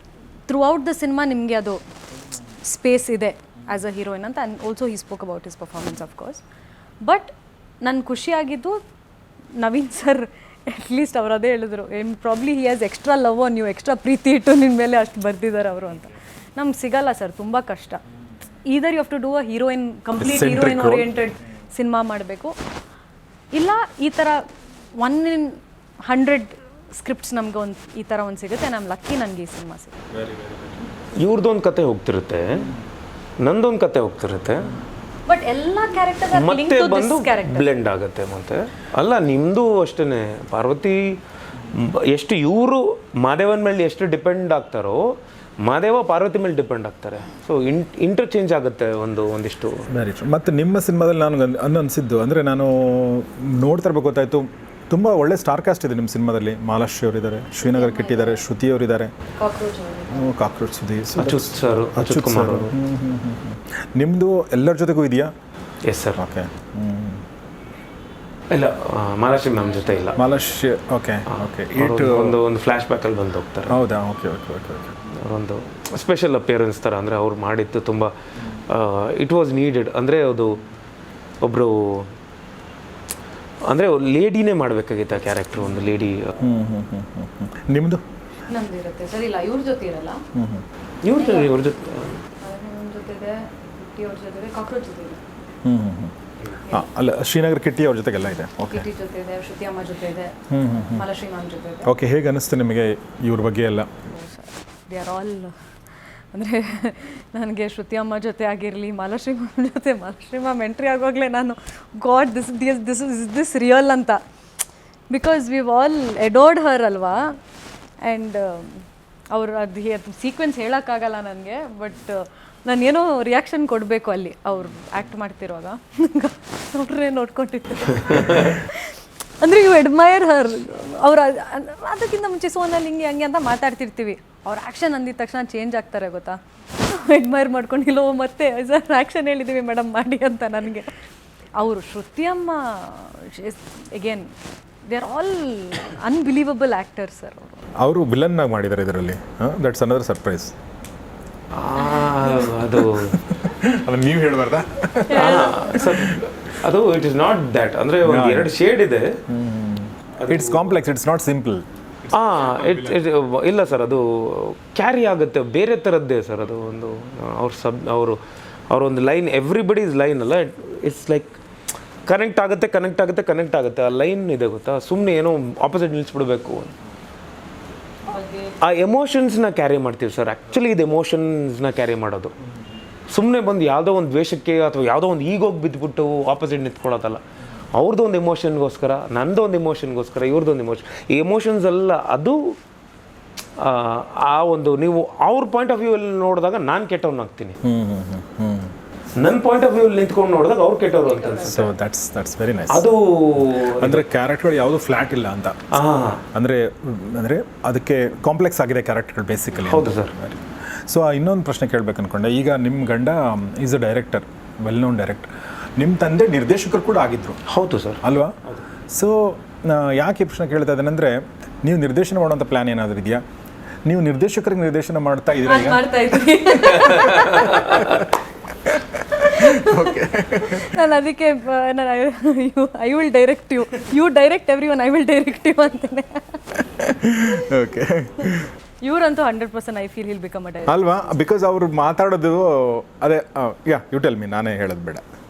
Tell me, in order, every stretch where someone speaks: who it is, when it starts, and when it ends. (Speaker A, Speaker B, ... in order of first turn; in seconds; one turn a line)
Speaker A: 0.5-1.8
Speaker A: 2.6-6.4
Speaker A: 7.0-8.8
Speaker A: 9.6-18.0
Speaker A: 18.6-22.6
Speaker B: 20.2-21.1
Speaker A: 23.5-24.4
Speaker A: 25.0-29.9
Speaker B: 30.2-30.9
Speaker C: 31.1-32.7
Speaker C: 33.4-34.8
Speaker A: 35.3-37.7
Speaker C: 36.3-41.2
Speaker C: 41.7-49.9
Speaker B: 49.9-59.1
Speaker A: 57.6-58.4
Speaker A: 59.4-60.3
Speaker B: 60.1-65.3
Speaker C: 61.2-62.7
Speaker C: 65.9-66.2
Speaker B: 66.2-67.2
Speaker C: 68.5-70.2
Speaker A: 69.5-70.3
Speaker B: 70.2-72.4
Speaker C: 71.3-73.8
Speaker B: 73.7-75.0
Speaker C: 75.1-78.1
Speaker C: 78.7-80.6
Speaker C: 81.4-82.1
Speaker C: 83.7-86.3
Speaker B: 86.4-88.0
Speaker A: 88.5-90.2
Speaker B: 90.3-90.6
Speaker C: 91.0-92.2
Speaker A: 91.2-91.5
Speaker A: 92.4-95.2
Speaker B: 95.6-96.1
Speaker B: 96.7-98.9
Speaker A: 98.6-100.3
Speaker B: 100.5-101.0
Speaker A: 100.9-101.9
Speaker B: 101.8-103.9
Speaker A: 104.1-105.5
Speaker A: 106.3-114.2
Speaker A: 115.1-117.4
Speaker A: 118.0-140.9
Speaker C: 128.1-128.5
Speaker A: 141.6-144.3
Speaker A: 144.9-147.6
Speaker B: 147.8-150.6
Speaker C: 151.5-153.2
Speaker B: 153.0-156.2
Speaker A: 155.1-155.9
Speaker C: 155.1-159.2
Speaker B: 158.0-158.5
Speaker B: 159.3-163.0
Speaker C: 160.2-160.7
Speaker C: 162.1-168.2
Speaker C: 168.7-171.4
Speaker C: 172.1-176.7
Speaker A: 178.1-178.6
Speaker C: 178.6-182.3
Speaker C: 183.1-187.2
Speaker C: 187.7-192.6
Speaker C: 193.6-197.6
Speaker B: 197.6-198.7
Speaker C: 199.2-201.6
Speaker A: 201.0-201.7
Speaker B: 201.4-217.4
Speaker C: 202.7-204.0
Speaker C: 205.7-206.2
Speaker C: 209.6-210.1
Speaker C: 217.5-218.6
Speaker B: 218.0-218.4
Speaker B: 218.9-223.2
Speaker B: 223.8-228.1
Speaker A: 225.4-227.8
Speaker C: 226.9-228.0
Speaker B: 228.6-230.8
Speaker A: 229.1-236.4
Speaker B: 236.7-238.5
Speaker A: 238.8-240.8
Speaker B: 240.7-245.0